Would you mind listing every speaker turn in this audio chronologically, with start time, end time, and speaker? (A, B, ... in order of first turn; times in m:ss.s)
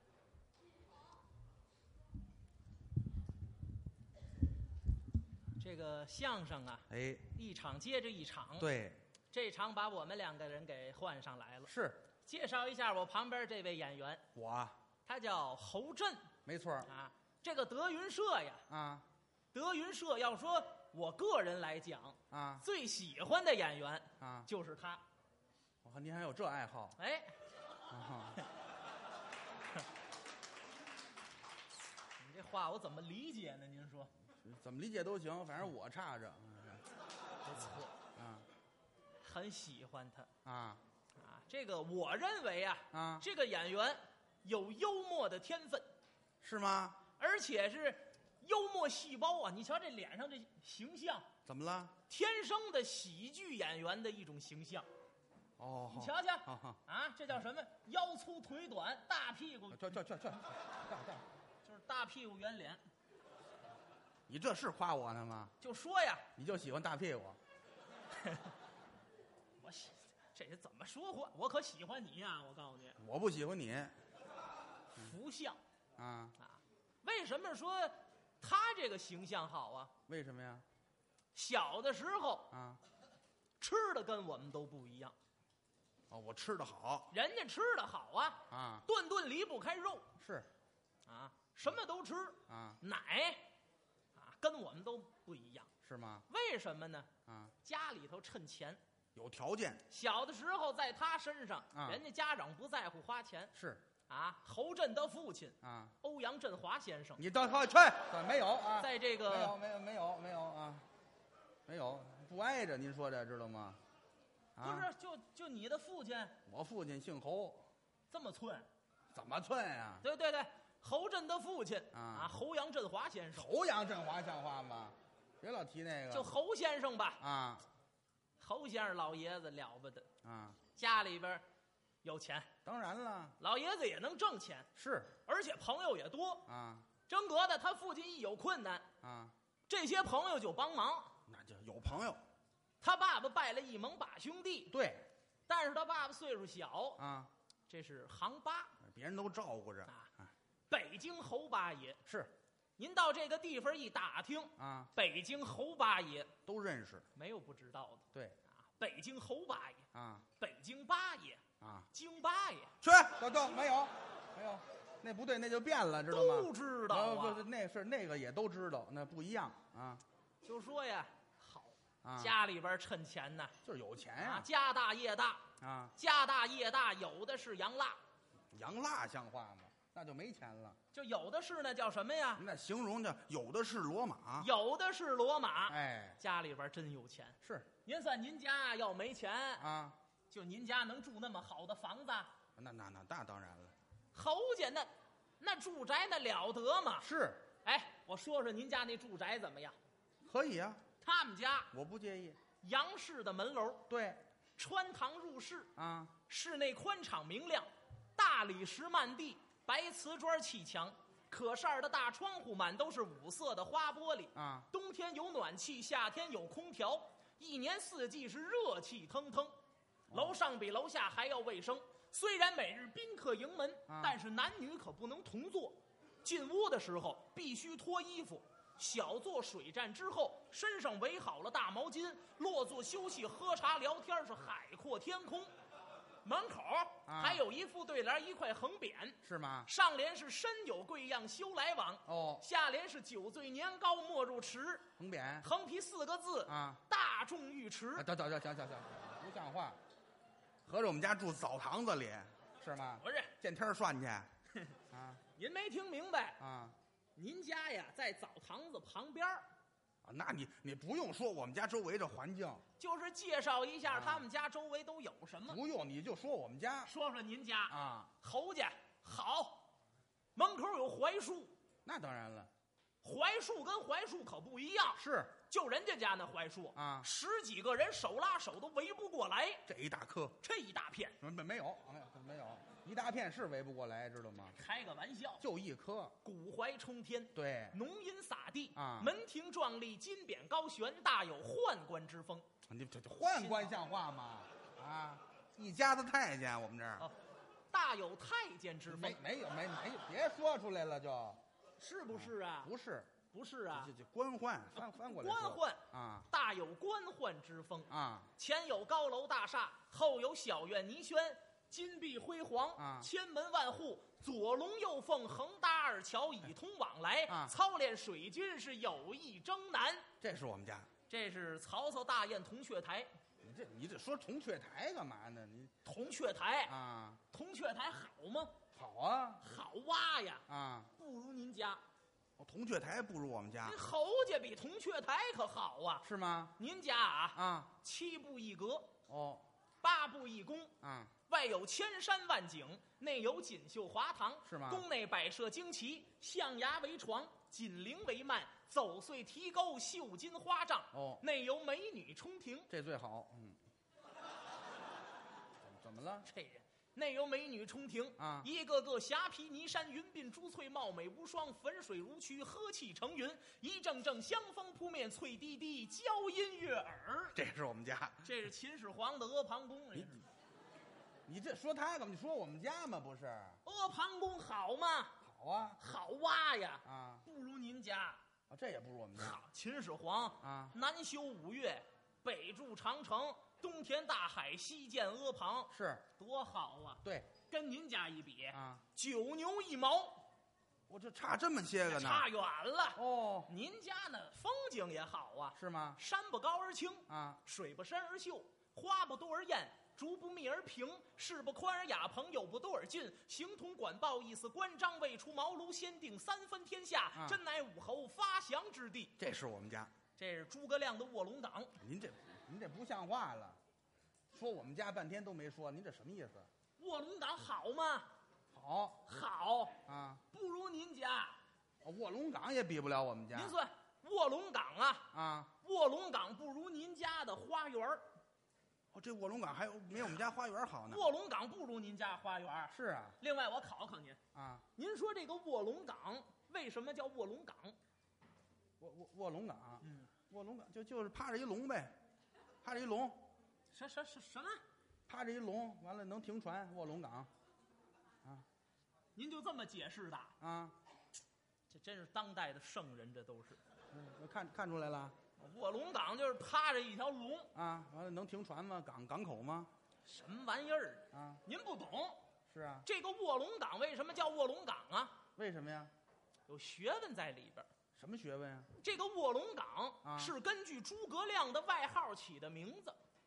0:05.6-0:08.7 A
0:06.9-0:07.3 B
0:08.6-0:09.0 B
0:09.3-0:11.7 A
0:11.7-0:12.0 B
0:12.2-0:14.2 A
0:14.3-0:14.8 B
0:15.0-0:16.3 A
0:16.4-0:16.9 B
0:16.8-0:18.6 A
0:18.7-0:19.0 B
0:19.5-0:25.0 A
0:22.3-0:22.6 B
0:24.2-0:24.5 B
0:25.8-0:27.0 B
0:27.0-0:27.3 A
0:27.9-0:28.4 B
0:32.2-0:34.1 A
0:34.4-0:36.8 B
0:37.4-0:37.9 A
0:38.1-0:38.4 B
0:39.2-0:40.3 A
0:40.4-0:40.8 B
0:41.2-0:45.9 A
0:42.9-0:43.2 B
0:46.4-0:47.0 B
0:47.2-0:51.3 A
0:51.4-0:52.0 B
0:52.1-0:54.9 A
0:55.6-0:56.8 B
0:55.9-1:00.0 A
0:59.7-1:01.2 B
1:01.6-1:02.8 A
1:04.3-1:05.5 B
1:05.6-1:06.2 A
1:06.4-1:07.4 B
1:08.1-1:08.5 A
1:09.6-1:13.0 A
1:13.0-1:13.9 B
1:14.9-1:15.6 A
1:16.0-1:16.3 B
1:16.4-1:19.9 A
1:20.1-1:20.6 B
1:21.3-1:22.5 A
1:22.5-1:22.8 B
1:23.6-1:25.1 A
1:26.1-1:27.1 B
1:27.1-1:30.1 A
1:28.5-1:28.8 B
1:30.2-1:30.5 B
1:31.0-1:33.5 A
1:32.5-1:32.8 B
1:34.1-1:35.7 A
1:35.8-1:36.3 B
1:36.3-1:37.1 A
1:37.2-1:37.5 B
1:37.6-1:38.8 A
1:39.1-1:39.8 B
1:39.9-1:43.5 A
1:41.7-1:42.0 B
1:43.5-1:43.8 B
1:44.1-1:47.2 A
1:45.6-1:45.9 B
1:47.2-1:50.8 B
1:48.8-1:49.6 A
1:51.7-1:53.8 B
1:54.6-1:54.9 B
1:54.6-1:56.4 A
1:56.4-1:57.6 B
1:58.1-1:58.7 A
1:59.1-2:00.0 B
2:00.0-2:03.5 A
2:01.9-2:02.3 B
2:03.3-2:06.3 B
2:06.1-2:07.2 A
2:07.2-2:07.6 B
2:08.4-2:10.1 A
2:10.2-2:10.6 B
2:10.7-2:11.4 A
2:12.0-2:12.5 A
2:12.6-2:13.4 B
2:13.4-2:14.7 A
2:14.7-2:15.1 B
2:15.2-2:16.5 A
2:16.5-2:16.9 B
2:17.1-2:18.9 A
2:19.0-2:19.3 B
2:19.7-2:21.1 A
2:21.3-2:22.2 B
2:22.8-2:24.7 A
2:24.7-2:25.1 B
2:25.5-2:27.0 A
2:27.0-2:27.3 B
2:27.7-2:28.7 A
2:28.8-2:30.3 B
2:30.7-2:32.0 A
2:32.0-2:32.3 B
2:32.8-2:36.3 A
2:34.6-2:34.9 B
2:36.4-2:37.0 B
2:37.1-2:39.8 A
2:38.1-2:38.4 B
2:39.9-2:40.2 B
2:40.4-2:42.7 A
2:41.6-2:41.9 B
2:42.8-2:50.0 B
2:46.1-2:47.4 A
2:50.4-2:53.5 A
2:52.0-2:52.4 B
2:53.6-2:54.5 B
2:54.2-2:55.4 A
2:55.6-2:55.9 B
2:56.0-2:58.0 A
2:58.5-3:00.8 B
3:00.9-3:02.4 A
3:02.4-3:04.5 B
3:04.4-3:09.6 A
3:05.7-3:06.2 B
3:07.4-3:07.7 B
3:09.6-3:10.0 B
3:10.3-3:12.3 A
3:12.6-3:13.7 B
3:14.1-3:17.1 A
3:17.0-3:17.4 B
3:17.6-3:19.8 A
3:20.2-3:20.8 B
3:21.0-3:21.7 A
3:21.7-3:22.4 B
3:22.6-3:23.8 A
3:23.9-3:24.2 B
3:24.6-3:25.7 A
3:25.8-3:26.1 B
3:26.3-3:39.6 A
3:34.3-3:34.7 B
3:40.1-3:40.3 B
3:40.1-3:55.5 A
3:43.9-3:44.2 B
3:56.2-4:04.9 A
3:57.0-3:57.4 B
3:59.2-3:59.7 B
4:02.0-4:02.4 B
4:05.0-4:05.5 B
4:05.4-4:08.1 A
4:06.5-4:06.8 B
4:08.0-4:09.8 B
4:10.6-4:14.3 B
4:13.0-4:13.3 A
4:14.9-4:15.2 B
4:15.4-4:16.4 A
4:16.4-4:16.8 B
4:17.2-4:19.5 A
4:20.0-4:22.6 B
4:22.8-4:25.6 A
4:23.8-4:24.3 B
4:25.5-4:26.9 B
4:26.8-4:29.7 A
4:27.7-4:28.1 B
4:30.4-4:31.6 A
4:31.8-4:32.5 B
4:33.0-4:39.6 A
4:35.0-4:35.3 B
4:36.7-4:37.1 B
4:39.6-4:40.4 B
4:40.4-4:41.2 A
4:41.2-4:44.6 B
4:44.5-4:45.4 A
4:45.4-4:46.2 B
4:46.2-4:52.5 A
4:47.3-4:47.8 B
4:48.7-4:49.1 B
4:52.7-4:57.1 B
4:53.2-4:53.7 A
4:57.7-4:59.2 A
4:58.9-5:01.4 B
5:01.8-5:02.7 A
5:02.1-5:03.2 B
5:03.3-5:03.9 A
5:03.7-5:06.3 B
5:04.8-5:20.1 A
5:07.9-5:08.3 B
5:12.8-5:13.1 B
5:17.3-5:17.5 B
5:20.2-5:20.9 B
5:21.1-5:23.1 A
5:23.4-5:25.7 B
5:25.8-5:26.7 A
5:26.7-5:27.2 B
5:27.3-5:28.6 A
5:28.7-5:29.4 B
5:29.4-5:30.4 A
5:30.5-5:30.9 B
5:31.0-5:31.8 A
5:32.4-5:33.8 B
5:33.6-5:36.0 A
5:36.0-5:36.6 B
5:36.6-5:38.9 A
5:37.3-5:37.7 B
5:39.1-5:39.4 B
5:39.8-5:40.7 A
5:40.8-5:41.1 B
5:41.3-5:52.7 A
5:44.4-5:44.8 B
5:50.9-5:51.2 B
5:52.7-5:53.6 B
5:55.6-5:56.3 B
5:56.3-6:07.4 A
5:58.2-5:58.5 B
6:07.3-6:08.2 B
6:08.2-6:10.2 A
6:11.3-6:13.6 B
6:13.6-6:15.2 A
6:15.2-6:15.8 B
6:15.8-6:18.2 A
6:16.8-6:17.2 B
6:18.5-6:19.4 B
6:19.2-6:30.2 A
6:20.4-6:20.7 B
6:25.7-6:26.0 B
6:27.0-6:27.3 B
6:28.5-6:28.8 B
6:30.9-6:32.3 B
6:31.8-6:49.1 A
6:33.0-6:33.5 B
6:35.6-6:36.0 B
6:37.1-6:37.4 B
6:47.1-6:47.4 B
6:49.2-6:49.9 B
6:50.2-6:51.8 A
6:51.8-6:53.6 B
6:54.3-6:56.5 B
6:56.8-6:58.1 A
6:58.5-6:59.0 B
6:59.0-6:59.8 A
6:59.8-7:00.2 B
7:00.3-7:01.4 A
7:01.8-7:03.5 B
7:03.3-7:05.1 A
7:05.1-7:05.5 B
7:05.6-7:08.1 A
7:08.9-7:11.0 B
7:10.9-7:14.2 A
7:12.7-7:13.2 B
7:14.3-7:14.6 B
7:14.8-7:17.8 A
7:18.8-7:21.9 B
7:19.8-7:20.1 A
7:22.6-7:23.3 B
7:23.7-7:24.6 A
7:25.1-7:27.3 B
7:29.1-7:30.3 A
7:30.4-7:30.7 B
7:31.7-7:33.6 A
7:33.9-7:35.1 B
7:35.4-7:37.5 A
7:37.5-7:39.7 B
7:40.0-7:42.2 A
7:41.1-7:41.4 B
7:42.5-7:42.8 B
7:42.8-7:45.2 A
7:45.4-7:45.9 B
7:46.5-7:47.7 A
7:48.0-7:48.7 B
7:48.7-7:53.0 A
7:50.0-7:50.3 B